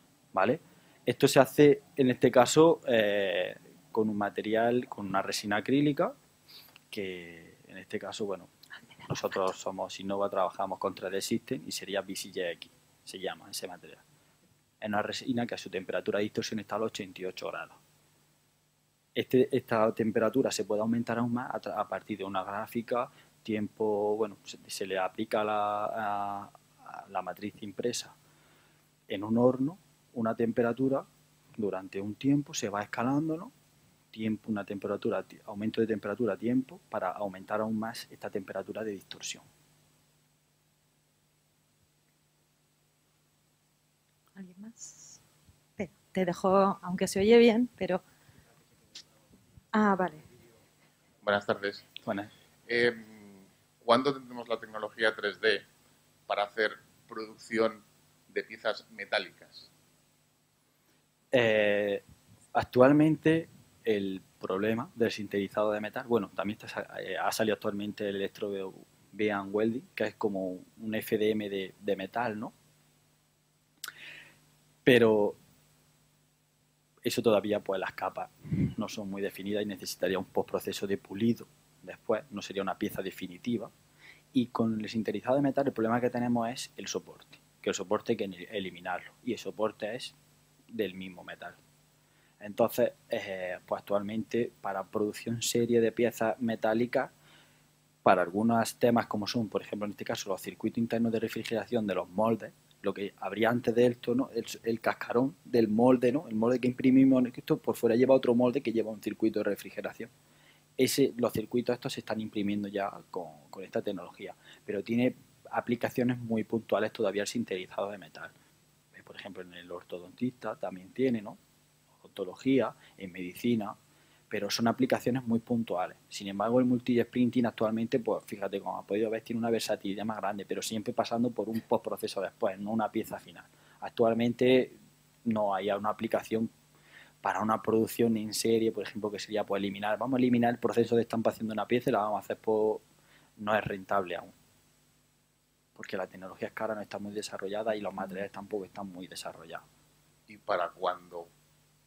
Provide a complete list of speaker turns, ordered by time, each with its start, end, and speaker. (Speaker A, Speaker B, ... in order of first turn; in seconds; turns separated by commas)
Speaker A: 0.3-6.1, Speaker A: 6.9-8.5, Speaker A: 9.1-14.0, Speaker A: 14.8-17.8, Speaker A: 19.1-28.1, Speaker A: 29.1-31.1, Speaker A: 31.6-33.5, Speaker A: 34.1-39.4, Speaker B: 44.3-45.2, Speaker B: 45.8-48.0, Speaker B: 49.7-50.2, Speaker C: 51.2-51.9, Speaker A: 52.0-52.3, Speaker C: 52.7-55.6, Speaker C: 56.3-59.7, Speaker A: 61.3-62.0, Speaker A: 62.5-72.5, Speaker A: 74.8-75.4, Speaker A: 77.0-83.7, Speaker A: 84.3-90.1, Speaker A: 90.7-91.6, Speaker A: 92.4-97.1, Speaker A: 98.0-110.1, Speaker A: 110.8-118.3, Speaker A: 118.9-121.4, Speaker A: 122.0-123.8, Speaker A: 124.3-136.5, Speaker A: 137.2-142.8, Speaker A: 143.4-144.3, Speaker A: 145.7-149.6, Speaker C: 150.3-151.3